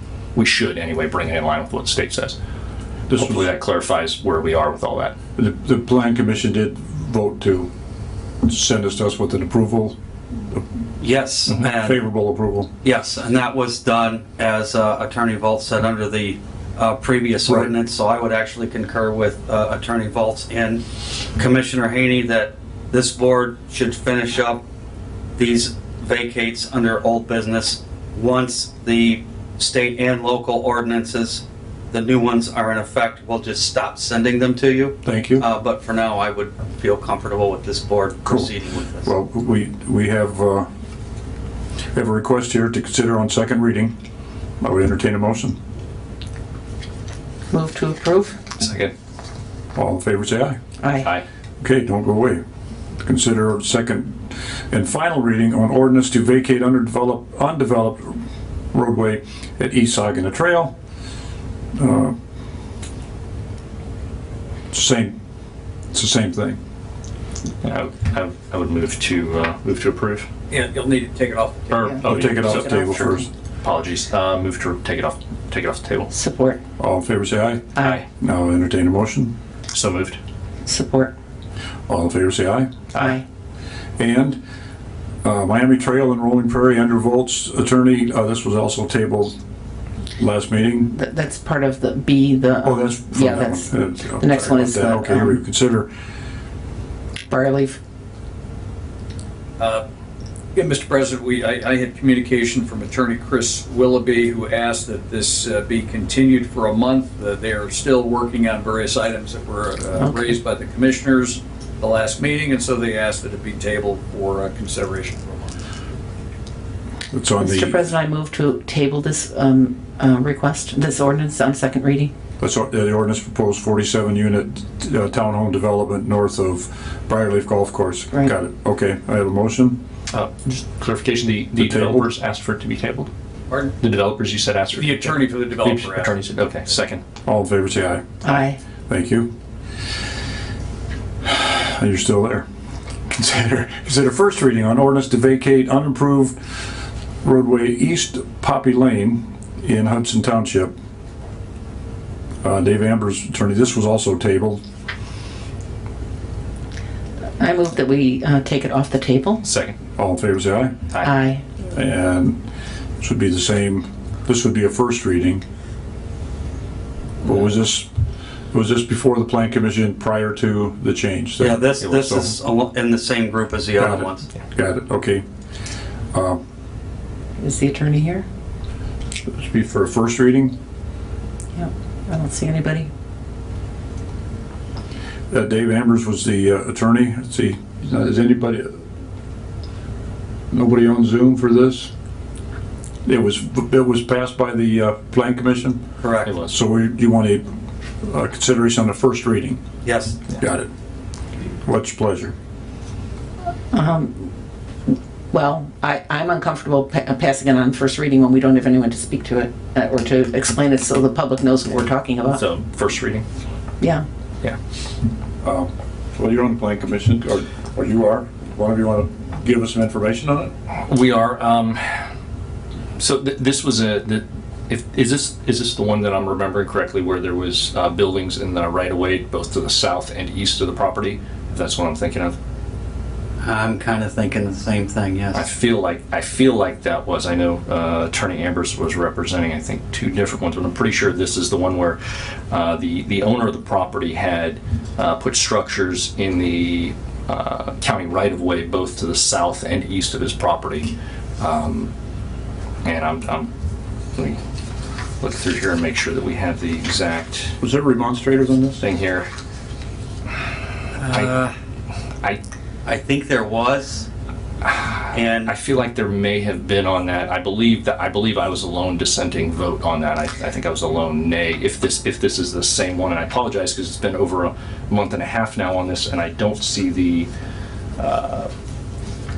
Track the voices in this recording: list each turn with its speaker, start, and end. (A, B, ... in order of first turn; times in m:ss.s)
0:00.3-0:02.4 A
0:03.1-0:03.5 B
0:03.1-0:05.1 A
0:05.4-0:07.7 B
0:08.4-0:09.9 B
0:11.0-0:12.0 C
0:11.5-0:12.7 B
0:12.8-0:20.8 C
0:21.3-0:24.6 C
0:25.4-0:39.1 C
0:35.0-0:35.4 B
0:38.2-0:38.5 B
0:39.0-0:40.7 B
0:41.9-0:44.0 B
0:44.6-0:45.6 B
0:47.5-0:48.4 D
0:48.6-0:48.9 A
0:49.7-0:50.6 B
0:50.8-0:51.1 D
0:51.6-0:52.4 B
0:53.0-0:58.2 B
0:58.7-1:00.7 B
1:01.7-1:02.2 B
1:04.7-1:05.2 B
1:05.9-1:06.6 B
1:07.6-1:10.3 A
1:10.5-1:11.9 E
1:11.7-1:16.1 A
1:11.8-1:13.2 D
1:12.0-1:13.2 B
1:16.1-1:16.6 D
1:16.8-1:19.3 B
1:17.8-1:18.0 A
1:19.7-1:20.2 A
1:20.6-1:21.1 D
1:21.9-1:22.7 B
1:23.0-1:23.2 D
1:24.0-1:24.4 B
1:25.2-1:29.4 B
1:30.2-1:30.9 B
1:30.9-1:35.4 D
1:32.6-1:35.9 B
1:37.3-1:37.8 D
1:39.6-1:39.8 E
1:40.5-1:55.5 E
1:50.0-1:50.2 D
1:57.1-1:57.8 B
1:57.4-2:02.1 D
2:02.4-2:09.8 B
2:10.1-2:13.1 A
2:11.6-2:12.1 B
2:13.6-2:17.0 A
2:14.8-2:16.1 E
2:17.2-2:18.2 B
2:18.2-2:18.6 D
2:18.9-2:19.3 B
2:21.2-2:22.4 B
2:23.1-2:26.4 B
2:27.2-2:30.7 B
2:32.4-2:34.6 B
2:37.4-2:39.4 D
2:39.4-2:39.8 A
2:40.0-2:40.8 B
2:41.0-2:41.4 D
2:41.7-2:42.4 B
2:43.0-2:45.4 B
2:47.2-2:47.9 B
2:48.5-2:52.3 B
2:51.4-2:54.2 C
2:53.8-2:55.2 B
2:56.1-2:56.4 B
2:57.4-2:58.2 D
2:59.2-3:00.6 B
3:01.6-3:02.9 D
3:05.3-3:08.8 B
3:10.5-3:11.9 B
3:13.0-3:15.8 B
3:16.0-3:16.3 C
3:16.2-3:16.5 A
3:16.4-3:19.6 B
3:19.8-3:20.2 C
3:20.4-3:20.7 B
3:21.6-3:22.3 B
3:23.7-3:24.3 D
3:25.3-3:32.4 D
3:32.2-3:33.2 A
3:35.4-3:40.5 B
3:40.7-3:42.0 A
3:43.0-3:52.4 A
3:53.4-3:55.5 C
3:55.3-4:02.0 A
4:02.5-4:11.9 A
4:12.8-4:13.5 A
4:14.1-4:14.4 A
4:15.2-4:17.6 A
4:17.6-4:18.8 B
4:18.8-4:19.3 A
4:20.9-4:21.5 A
4:22.8-4:24.1 C
4:24.6-4:37.3 A
4:25.1-4:25.5 C
4:38.0-4:38.5 A